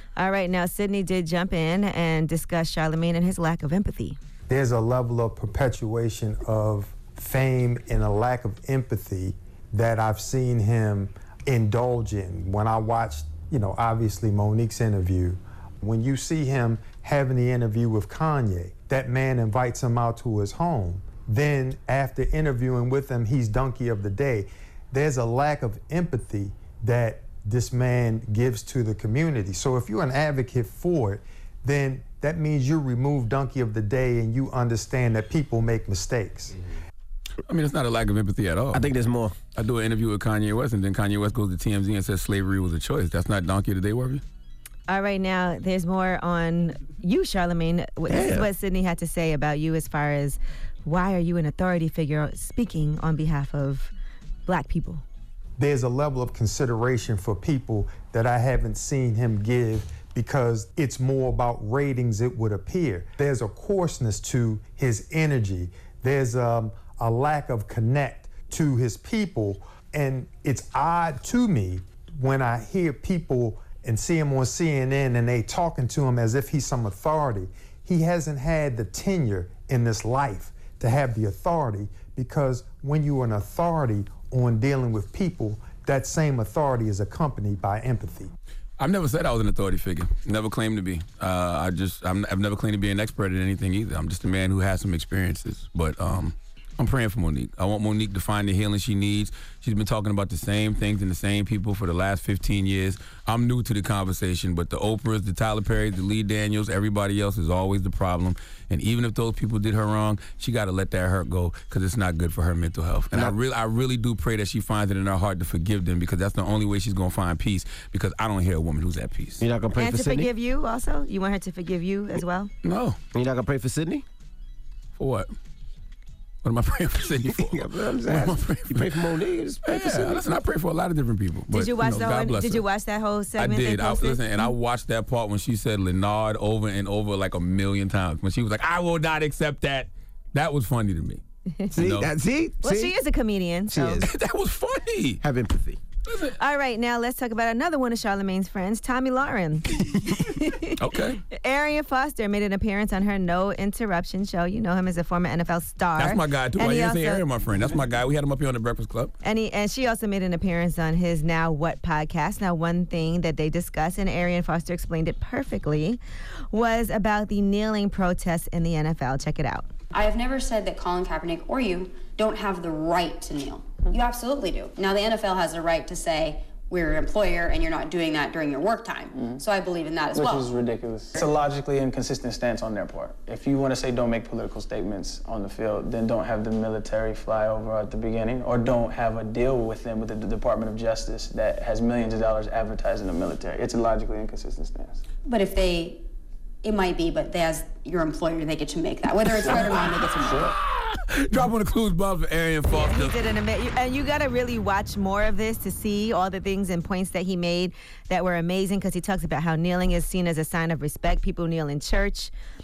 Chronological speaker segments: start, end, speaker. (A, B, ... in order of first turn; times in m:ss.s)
0:00.2-0:04.2 A
0:04.5-0:36.5 B
0:37.5-0:38.9 C
0:38.7-0:39.3 D
0:39.6-0:44.2 C
0:44.9-0:53.9 A
0:48.1-0:48.5 D
0:54.4-0:55.0 A
0:55.6-1:28.3 B
1:28.8-1:59.4 C
1:59.4-2:00.3 D
1:59.8-2:02.5 A
2:02.6-2:03.0 C
2:03.1-2:04.0 D
2:05.0-2:05.3 C
2:06.4-2:09.0 C
2:07.2-2:10.2 D
2:09.6-2:12.6 C
2:11.5-2:14.5 A
2:13.4-2:21.2 C
2:21.7-2:23.0 D
2:21.7-2:22.1 C
2:22.6-2:24.0 A
2:23.7-2:24.1 D
2:24.0-2:25.2 C
2:25.2-2:25.8 D
2:26.0-2:26.4 C
2:26.4-2:30.7 A
2:30.8-2:31.2 C
2:31.3-2:37.2 A
2:36.0-2:39.1 C
2:39.2-2:46.0 A
2:46.5-2:49.7 A
2:49.9-3:00.5 E
3:00.1-3:15.0 F
3:15.3-3:16.0 E
3:16.6-3:20.6 E
3:20.8-3:23.2 C
3:22.7-3:32.3 A